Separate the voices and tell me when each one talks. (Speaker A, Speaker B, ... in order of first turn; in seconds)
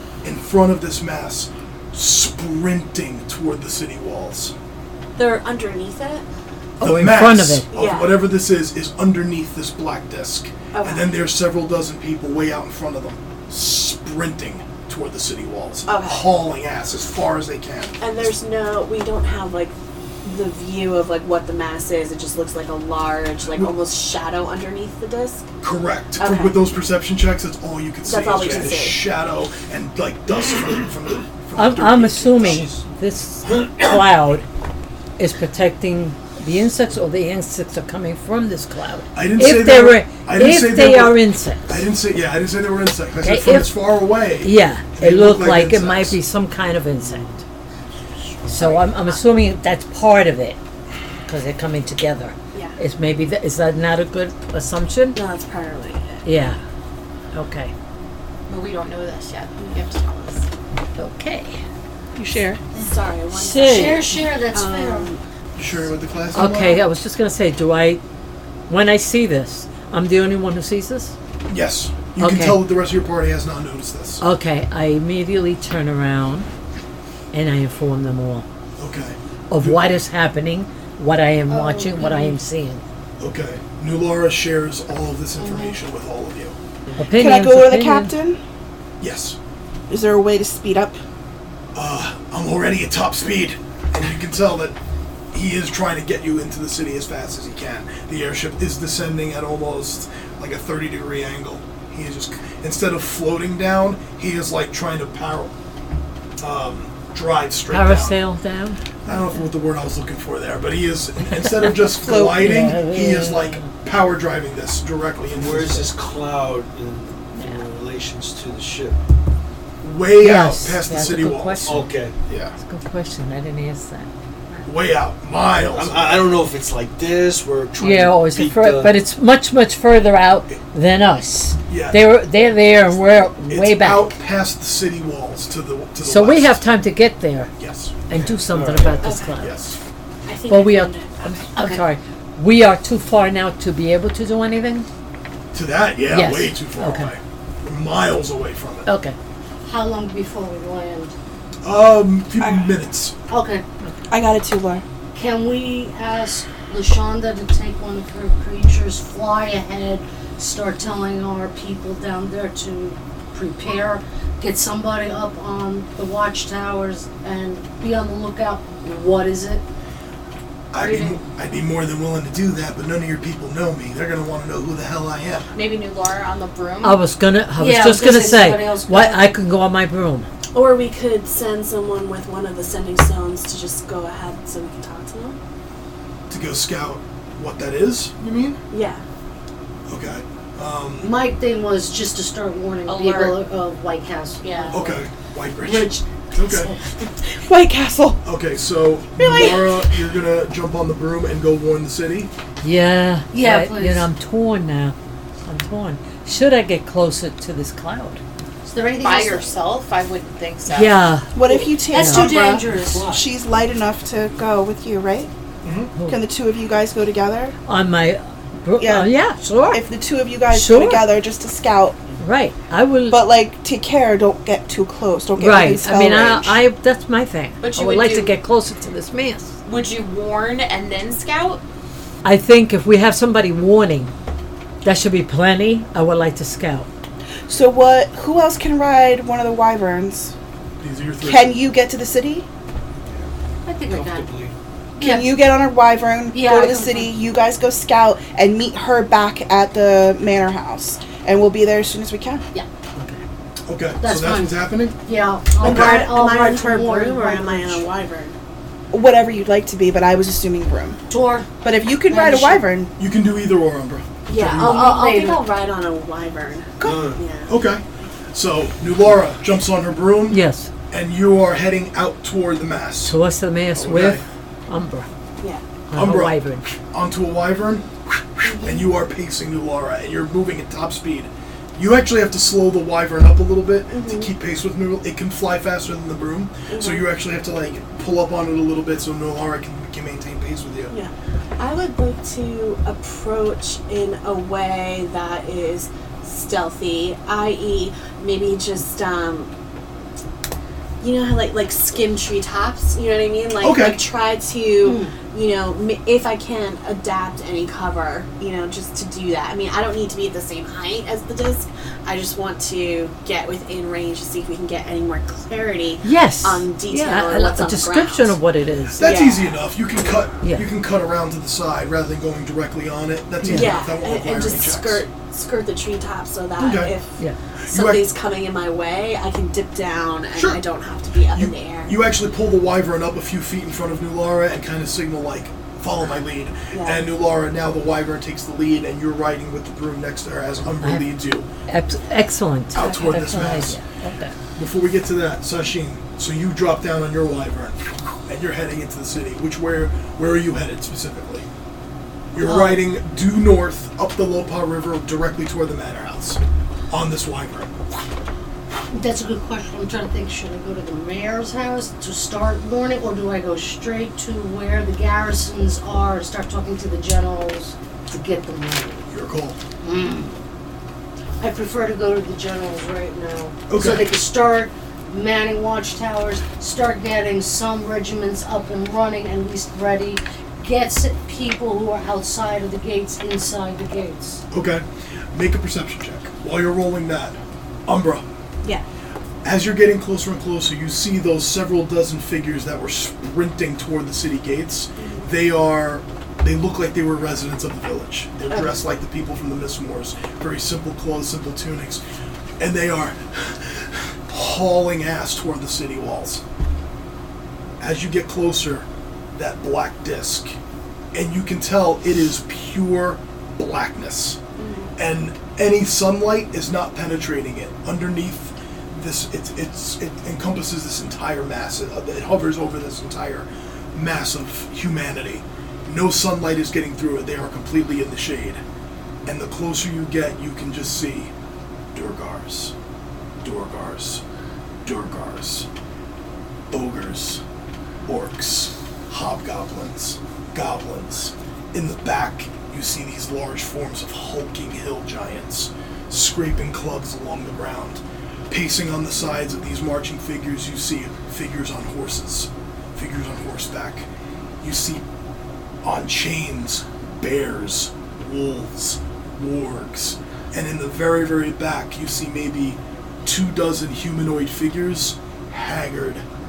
Speaker A: 0.2-4.5, 6.8-18.0, 25.6-32.7, 39.1-46.2, 65.6-66.8, 71.5-74.2, 78.8-80.0, 83.2-86.5, 89.0-89.3, 91.7-94.7, 95.3-105.5, 106.4-108.2, 109.0-115.9, 119.8-122.5, 124.6-126.4, 131.7-132.2, 133.4-136.7, 137.6-138.4, 139.4-139.8, 145.5-148.9, 151.6-153.1, 170.7-175.5, 186.3-188.6, 189.9-191.1, 194.7-196.7, 198.2-202.3, 215.6-215.9, 240.8-241.6, 253.7-254.9, 255.6-256.1, 263.0-264.8, 267.5-273.1, 273.7-274.2, 275.9-290.9, 303.6-304.0, 319.0-325.1, 326.6-326.9, 327.7-328.0, 330.3-330.6, 331.3-341.5, 342.7-343.8, 344.6-351.4, 352.3-357.8, 369.1-369.6, 373.7-374.1, 384.5-388.2, 389.4-402.0, 402.6-406.4, 407.8-410.5, 411.1-414.4, 414.9-428.6, 429.2-431.3, 431.9-432.7, 433.4-434.2, 434.8-435.7, 436.7-437.4, 438.1-454.1, 454.6-455.0, 455.8-466.2
Speaker B: 5.2-6.2, 7.7-8.2, 10.7-11.1, 15.8-16.3, 18.0-25.5, 26.2-26.6, 28.0-29.1, 48.5-49.2, 55.1-56.2, 59.6-59.8, 62.7-65.2, 82.0-82.3, 85.4-85.7, 139.0-139.4, 140.2-141.5, 180.5-185.4, 188.7-189.0, 199.2-199.8, 255.6-258.4, 264.3-267.6, 275.4-275.6, 278.4-278.9, 283.9-284.3, 286.7-287.1, 290.9-299.5, 301.0-318.4, 319.0-320.2, 323.5-332.0, 336.7-337.0, 395.0-395.2, 398.5-398.8, 414.6-414.9
Speaker C: 6.8-7.7, 31.6-34.5, 35.2-41.9, 43.2-43.8, 44.4-47.4, 48.5-50.6, 51.3-55.2, 56.2-56.6, 57.3-57.7, 61.0-61.6, 63.3-64.1, 66.3-68.0, 68.7-71.1, 72.2-72.7, 74.2-76.5, 77.3-78.5, 79.5-82.8, 87.0-88.1, 107.7-108.8, 111.5-113.7, 120.2-121.9, 122.5-124.6, 127.8-134.1, 136.0-137.5, 138.1-139.5, 140.5-144.8, 146.1-147.1, 148.8-149.2, 176.8-180.3, 202.6-204.9, 205.4-208.2, 210.7-211.3, 211.9-212.3, 215.9-216.2, 217.7-219.8, 220.5-221.1, 222.2-223.2, 225.4-229.5, 232.2-234.1, 234.8-236.9, 270.3-270.7, 273.0-275.1, 275.9-276.7, 316.0-319.1, 320.4-320.7, 323.4-323.8, 340.8-341.1, 341.7-344.3
Speaker D: 32.4-32.8, 47.0-47.3, 115.3-119.0, 121.6-122.2, 125.7-129.0, 138.5-139.2, 243.8-244.5, 266.8-267.2
Speaker E: 58.5-60.5, 175.5-177.0, 192.8-193.4, 194.4-194.7, 209.0-211.0, 227.6-228.3, 229.6-231.6
Speaker F: 62.1-62.6, 87.1-88.4, 89.9-91.0, 112.0-112.6, 154.1-154.8, 197.3-198.2, 211.3-215.3, 216.1-217.5, 218.8-222.0, 223.1-226.6, 237.5-240.3, 241.2-242.5, 245.0-252.4, 258.9-261.0, 261.6-262.9
Speaker G: 63.7-65.1, 81.5-82.2, 141.6-141.8, 149.6-151.1, 153.3-153.6, 155.1-169.6, 170.8-171.2, 177.6-179.3, 191.0-195.0, 195.6-196.8, 203.3-204.1, 208.6-209.6, 211.9-213.2, 243.7-244.3, 245.0-245.3, 246.3-247.1, 254.0-257.9, 261.1-261.5, 262.1-262.6, 264.4-265.4, 304.8-305.1, 352.4-352.8, 358.9-369.1, 369.8-370.3, 371.4-384.4